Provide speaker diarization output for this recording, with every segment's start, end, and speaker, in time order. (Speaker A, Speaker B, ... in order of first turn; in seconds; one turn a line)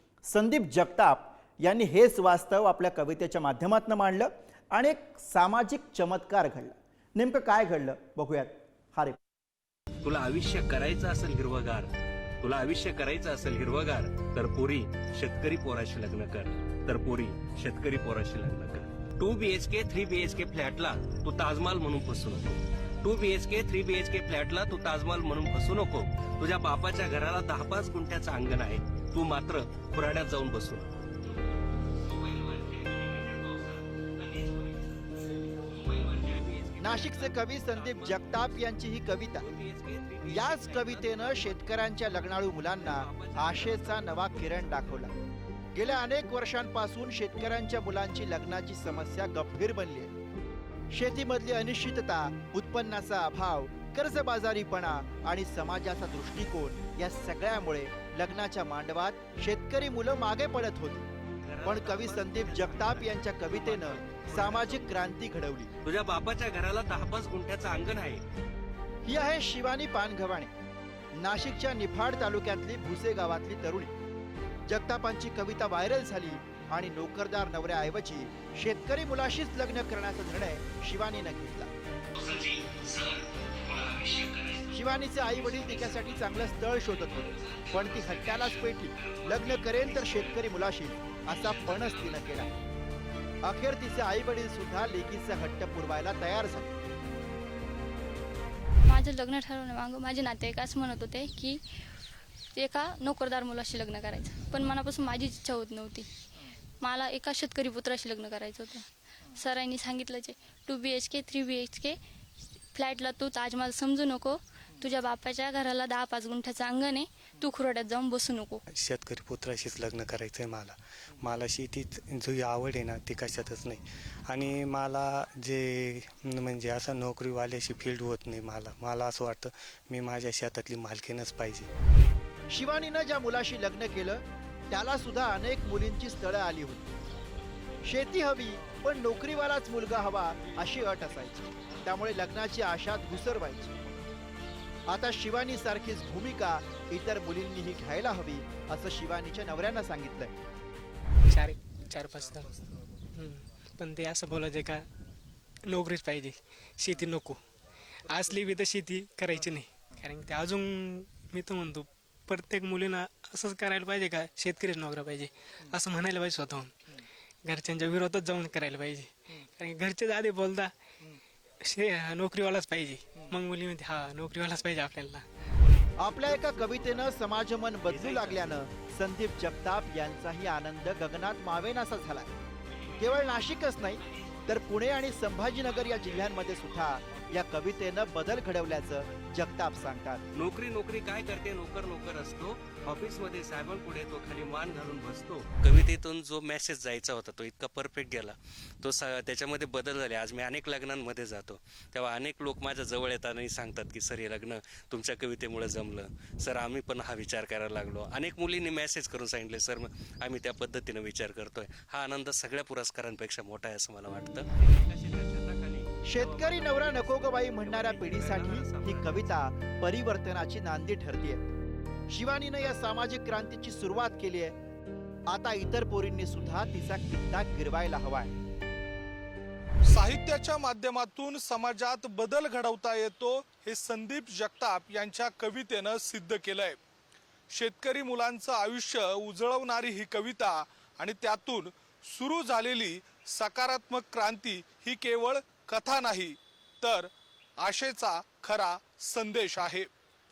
Speaker A: 0.3-9.2
Speaker B: 10.0-31.1
Speaker B: 32.0-38.7
Speaker A: 36.8-39.5
Speaker B: 39.4-41.9
Speaker A: 40.2-45.1
Speaker B: 42.8-45.2
Speaker A: 45.8-50.1
Speaker A: 50.9-61.1
Speaker B: 61.4-64.9
Speaker A: 61.6-65.7
Speaker B: 65.8-68.2
Speaker A: 69.1-70.5
Speaker A: 71.2-73.9
Speaker A: 74.7-81.7
Speaker B: 82.2-90.5
Speaker A: 84.7-92.5
Speaker B: 91.2-92.5
Speaker A: 93.4-96.7
Speaker C: 98.8-101.6
Speaker C: 102.6-106.1
Speaker C: 106.8-112.0
Speaker C: 112.7-118.6
Speaker D: 118.7-131.7
Speaker A: 132.5-136.9
Speaker A: 137.8-143.7
Speaker A: 144.9-150.3
Speaker E: 151.3-152.5
Speaker E: 153.1-154.9
Speaker E: 155.7-157.4
Speaker E: 158.0-170.7
Speaker E: 171.6-175.3
Speaker A: 176.0-182.3
Speaker B: 177.9-178.5
Speaker B: 182.7-188.0
Speaker A: 183.0-190.2
Speaker B: 190.3-219.3
Speaker A: 216.1-221.4
Speaker A: 222.1-224.6
Speaker A: 225.3-228.3
Speaker F: 229.8-236.8
Speaker F: 237.5-249.9